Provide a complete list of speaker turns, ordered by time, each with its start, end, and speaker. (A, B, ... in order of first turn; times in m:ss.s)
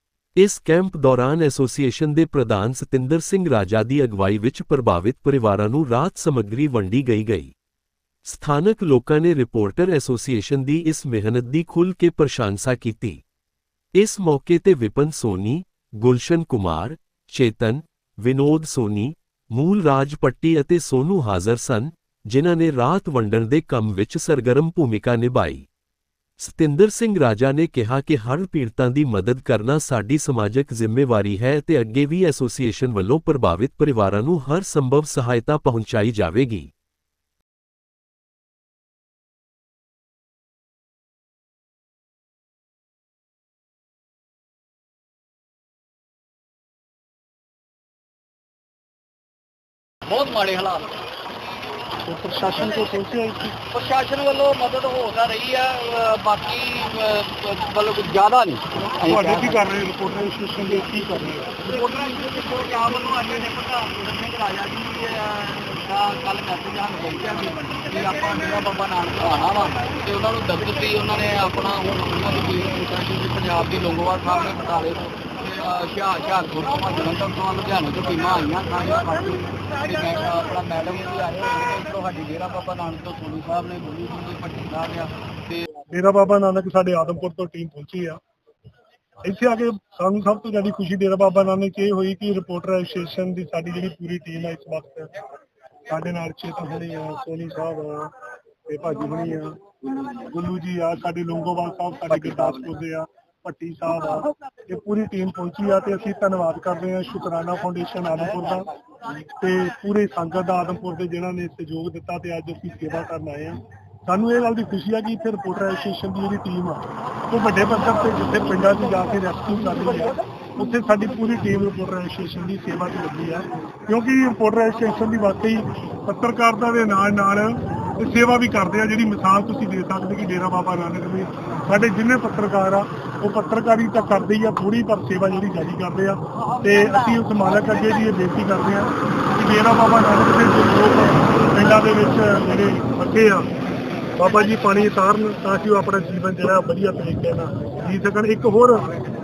0:00.4-0:07.5 A
0:08.2-0:13.2 A
0:14.0-0:25.7 A
0:26.4-0:36.7 A
0:50.1-0:51.0 B
0:52.0-0:53.6 C
0:53.7-0:59.6 B
0:59.1-1:01.6 C
1:01.6-1:25.6 B
1:25.9-1:28.2 C
1:29.2-1:35.1 C
1:35.9-1:38.1 C
1:38.7-1:39.6 C
1:40.2-1:48.7 C
1:49.4-2:23.5 C
2:24.2-2:28.9 C